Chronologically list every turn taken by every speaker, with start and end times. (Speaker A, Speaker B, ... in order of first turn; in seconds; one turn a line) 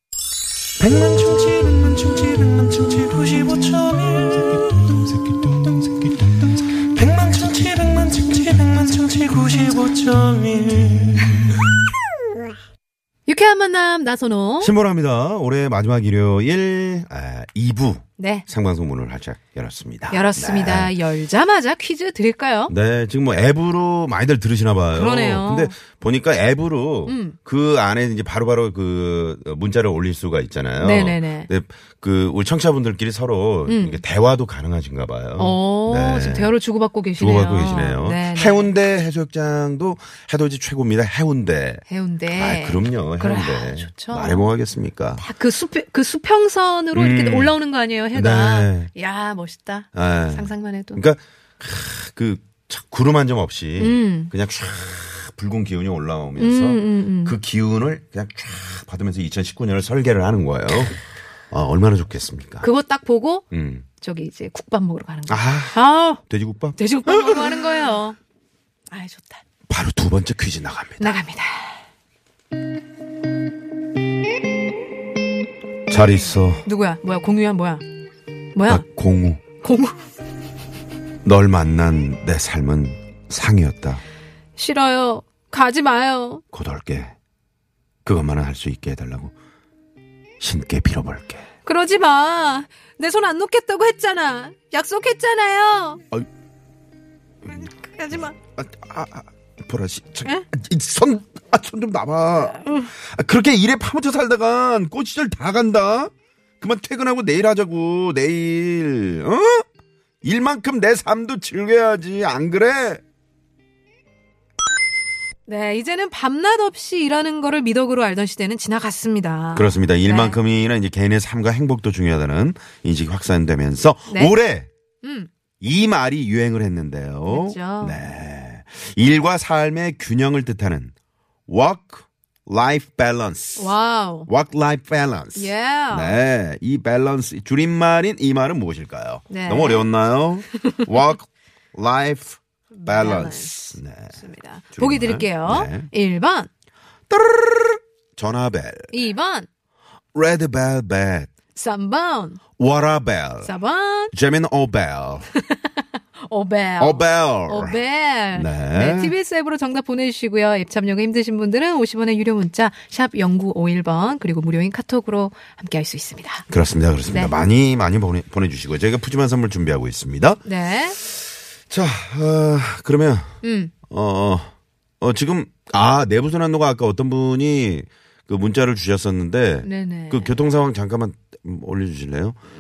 Speaker A: 0.8-4.6
Speaker A: 7.0-11.1
Speaker B: 13.3-14.7
Speaker C: 14.6-20.9
Speaker B: 18.2-18.5
Speaker B: 20.1-22.7
Speaker C: 22.7-36.5
Speaker B: 24.9-25.8
Speaker B: 27.1-27.4
Speaker B: 30.8-31.5
Speaker B: 33.7-34.0
Speaker B: 35.4-38.7
Speaker C: 37.2-45.2
Speaker B: 41.9-44.5
Speaker B: 45.2-51.0
Speaker C: 46.9-47.5
Speaker C: 48.1-48.9
Speaker C: 49.9-61.0
Speaker B: 53.8-54.3
Speaker B: 56.4-57.4
Speaker C: 61.5-62.7
Speaker B: 62.6-63.5
Speaker C: 63.5-63.9
Speaker B: 64.0-66.2
Speaker C: 65.3-67.9
Speaker B: 66.8-68.2
Speaker B: 68.9-69.4
Speaker C: 69.7-71.2
Speaker B: 71.0-71.8
Speaker C: 75.9-76.7
Speaker B: 76.6-77.8
Speaker B: 78.5-78.8
Speaker C: 78.7-79.4
Speaker B: 79.5-80.0
Speaker C: 81.2-84.0
Speaker B: 84.6-86.4
Speaker C: 86.5-87.1
Speaker C: 88.0-89.3
Speaker C: 90.4-91.5
Speaker B: 91.7-96.0
Speaker B: 97.5-98.3
Speaker C: 98.6-109.7
Speaker B: 102.5-102.9
Speaker C: 110.2-113.0
Speaker B: 115.5-120.4
Speaker C: 119.5-124.7
Speaker B: 124.1-124.3
Speaker B: 125.0-125.3
Speaker C: 125.6-130.9
Speaker B: 127.3-128.0
Speaker C: 131.5-145.9
Speaker B: 133.6-134.3
Speaker B: 135.3-136.2
Speaker B: 139.3-139.9
Speaker B: 140.5-140.8
Speaker B: 142.7-146.5
Speaker C: 147.1-149.0
Speaker B: 148.9-149.5
Speaker C: 150.2-151.3
Speaker B: 151.5-152.4
Speaker C: 152.6-153.5
Speaker B: 153.4-154.1
Speaker C: 154.1-155.3
Speaker B: 155.4-166.5
Speaker C: 156.8-157.8
Speaker C: 158.3-159.1
Speaker C: 166.5-170.4
Speaker B: 167.1-167.3
Speaker B: 170.4-171.0
Speaker C: 171.7-173.4
Speaker B: 173.4-173.7
Speaker C: 173.9-182.4
Speaker B: 179.6-180.3